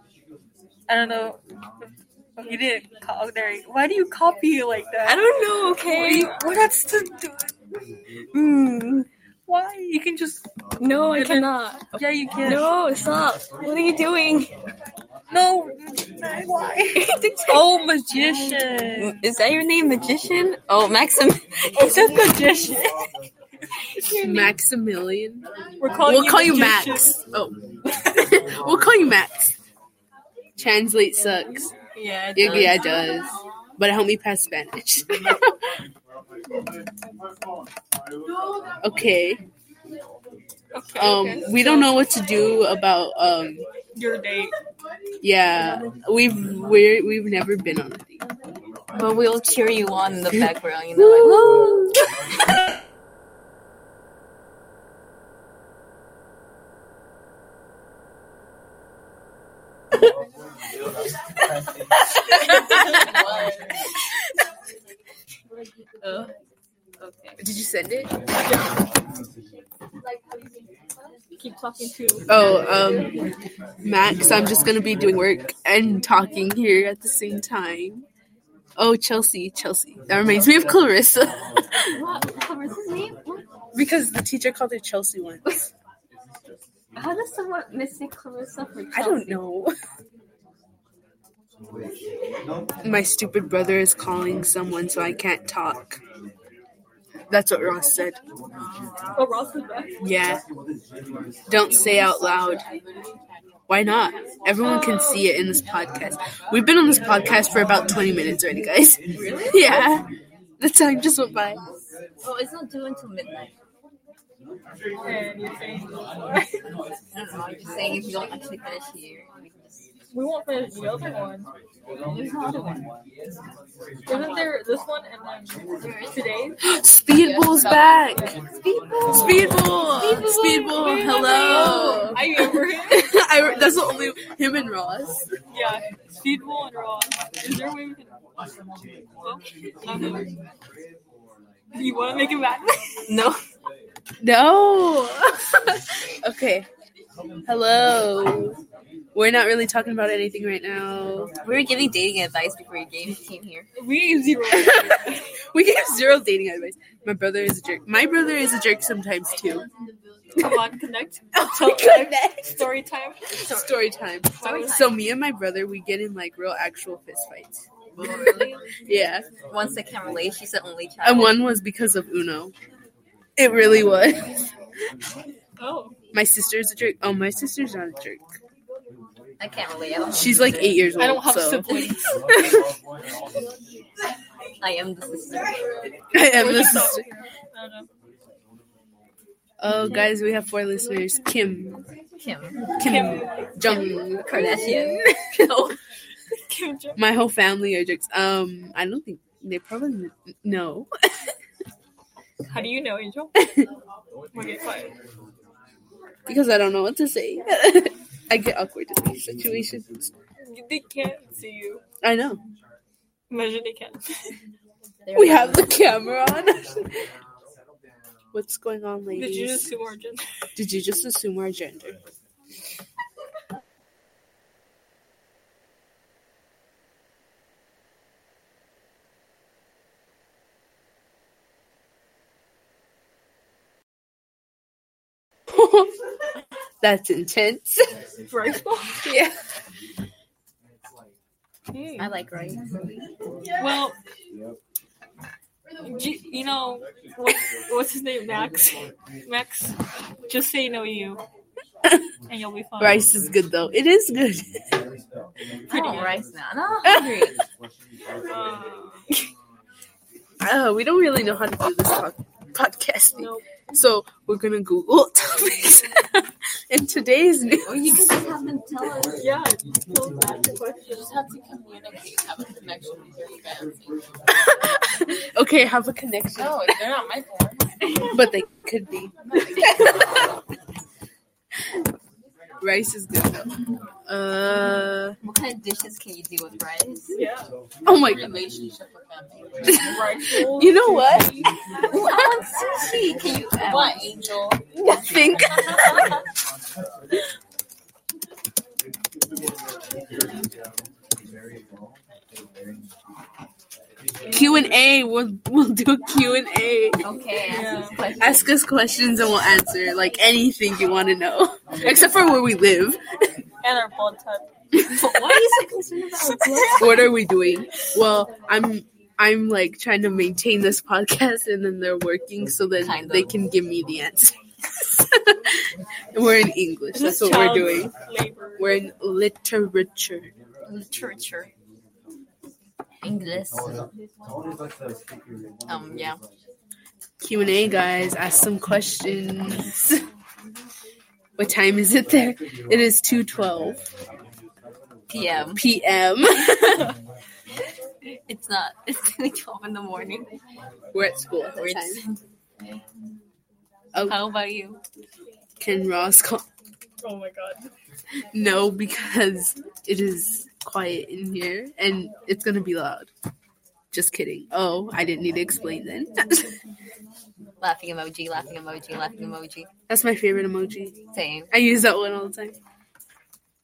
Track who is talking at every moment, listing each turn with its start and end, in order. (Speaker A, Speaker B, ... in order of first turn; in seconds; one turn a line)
Speaker A: 0.9-5.3
Speaker B: 5.1-6.3
Speaker C: 5.1-6.4
Speaker A: 5.9-6.4
Speaker B: 8.3-9.1
Speaker A: 9.5-10.4
Speaker C: 10.8-11.8
Speaker A: 11.1-12.7
Speaker C: 12.4-13.5
Speaker B: 13.6-14.5
Speaker A: 15.3-19.1
Speaker B: 19.0-22.4
Speaker A: 21.7-23.0
Speaker D: 24.2-29.5
Speaker A: 25.8-27.1
Speaker D: 30.6-31.7
Speaker B: 32.0-33.2
Speaker D: 32.4-35.5
Speaker D: 38.8-39.4
Speaker A: 40.7-42.0
Speaker D: 41.0-43.6
Speaker A: 44.0-44.5
Speaker D: 45.2-48.2
Speaker B: 48.9-52.0
Speaker B: 63.0-63.6
Speaker B: 66.0-66.3
Speaker B: 67.0-67.4
Speaker D: 67.4-68.1
Speaker A: 68.4-68.8
Speaker A: 71.4-72.5
Speaker D: 72.3-73.1
Speaker D: 73.8-78.1
Speaker D: 78.8-81.4
Speaker B: 81.8-83.5
Speaker D: 83.7-85.4
Speaker B: 87.0-89.5
Speaker D: 88.9-89.7
Speaker D: 92.8-96.0
Speaker D: 97.3-98.2
Speaker E: 98.9-99.3
Speaker A: 99.2-99.9
Speaker D: 100.0-100.4
Speaker E: 101.5-104.0
Speaker D: 101.5-102.6
Speaker D: 103.7-109.0
Speaker A: 104.6-105.2
Speaker B: 109.1-109.8
Speaker D: 109.5-110.1
Speaker D: 110.6-111.6
Speaker B: 112.2-113.5
Speaker A: 115.0-116.6
Speaker B: 117.1-119.8
Speaker A: 120.1-121.5
Speaker B: 122.1-122.8
Speaker A: 124.1-126.6
Speaker B: 124.1-124.4
Speaker B: 125.8-126.5
Speaker D: 126.7-128.3
Speaker B: 127.2-129.9
Speaker D: 129.1-135.2
Speaker A: 129.9-133.2
Speaker B: 131.7-132.0
Speaker A: 135.5-138.1
Speaker A: 139.2-140.3
Speaker A: 141.7-142.7
Speaker B: 143.1-143.4
Speaker D: 144.2-146.7
Speaker D: 147.5-148.6
Speaker D: 149.2-151.3
Speaker B: 151.4-153.7
Speaker A: 153.8-155.2
Speaker D: 155.5-159.7
Speaker A: 160.4-163.3
Speaker D: 161.3-162.5
Speaker B: 163.4-163.8
Speaker D: 163.4-167.6
Speaker B: 164.4-165.0
Speaker B: 168.0-168.7
Speaker D: 168.9-169.3
Speaker B: 169.5-171.4
Speaker D: 171.0-172.5
Speaker D: 173.4-174.3
Speaker A: 175.6-175.9
Speaker D: 176.1-178.2
Speaker B: 179.4-180.9
Speaker D: 180.1-181.7
Speaker A: 181.0-182.1
Speaker B: 184.6-185.7
Speaker D: 186.1-187.0
Speaker A: 186.3-187.9
Speaker D: 189.6-191.8
Speaker B: 192.2-192.8
Speaker D: 192.8-195.5
Speaker A: 192.8-193.9
Speaker B: 193.7-195.7
Speaker A: 196.5-197.0
Speaker D: 197.0-200.9
Speaker A: 202.5-203.3
Speaker A: 204.3-204.9
Speaker D: 206.3-210.1
Speaker A: 210.4-211.8
Speaker D: 212.0-212.4
Speaker A: 213.3-214.0
Speaker B: 215.1-215.8
Speaker D: 215.1-216.8
Speaker D: 218.3-219.7
Speaker A: 219.1-220.2
Speaker D: 220.6-222.0
Speaker D: 235.5-235.9
Speaker D: 236.8-237.9
Speaker A: 238.3-239.0
Speaker D: 239.0-239.3
Speaker A: 241.7-242.1
Speaker B: 242.0-242.9
Speaker A: 243.6-244.0
Speaker A: 245.8-249.8
Speaker A: 250.3-251.2
Speaker A: 252.3-253.1
Speaker D: 252.8-254.6
Speaker B: 255.7-257.4
Speaker A: 255.7-256.2
Speaker D: 256.9-257.3
Speaker A: 258.3-259.0
Speaker D: 260.4-268.2
Speaker A: 263.2-263.4
Speaker B: 267.6-269.2
Speaker A: 269.2-271.1
Speaker E: 270.9-274.0
Speaker D: 275.4-276.6
Speaker E: 276.4-277.8
Speaker D: 278.1-280.0
Speaker E: 279.3-279.6
Speaker D: 282.6-283.5
Speaker D: 284.1-285.2
Speaker B: 285.2-287.2
Speaker A: 287.1-287.5
Speaker D: 287.9-288.3
Speaker E: 288.0-289.8
Speaker A: 289.9-291.5
Speaker D: 289.9-291.5
Speaker B: 291.9-294.1
Speaker E: 293.6-294.6
Speaker D: 294.8-296.1
Speaker D: 304.3-307.0
Speaker B: 307.0-308.5
Speaker A: 307.5-308.0
Speaker D: 308.2-313.0
Speaker A: 313.6-314.4
Speaker D: 314.9-315.4
Speaker B: 314.9-317.1
Speaker A: 316.5-316.8
Speaker D: 316.7-325.6
Speaker B: 322.8-323.3
Speaker D: 326.1-327.9
Speaker A: 326.9-328.8
Speaker D: 328.6-330.3
Speaker B: 330.7-331.5
Speaker B: 333.0-333.7
Speaker B: 335.7-336.2
Speaker D: 337.2-340.0
Speaker D: 341.4-343.8
Speaker B: 345.1-345.6
Speaker D: 345.6-346.9
Speaker B: 348.3-350.3
Speaker D: 350.9-352.0
Speaker B: 351.6-352.2
Speaker B: 354.0-354.8
Speaker D: 355.6-356.4
Speaker A: 357.0-357.7
Speaker D: 358.3-363.1
Speaker D: 363.9-366.5
Speaker B: 367.6-369.7
Speaker D: 369.9-371.0
Speaker B: 371.1-371.5
Speaker D: 371.5-372.6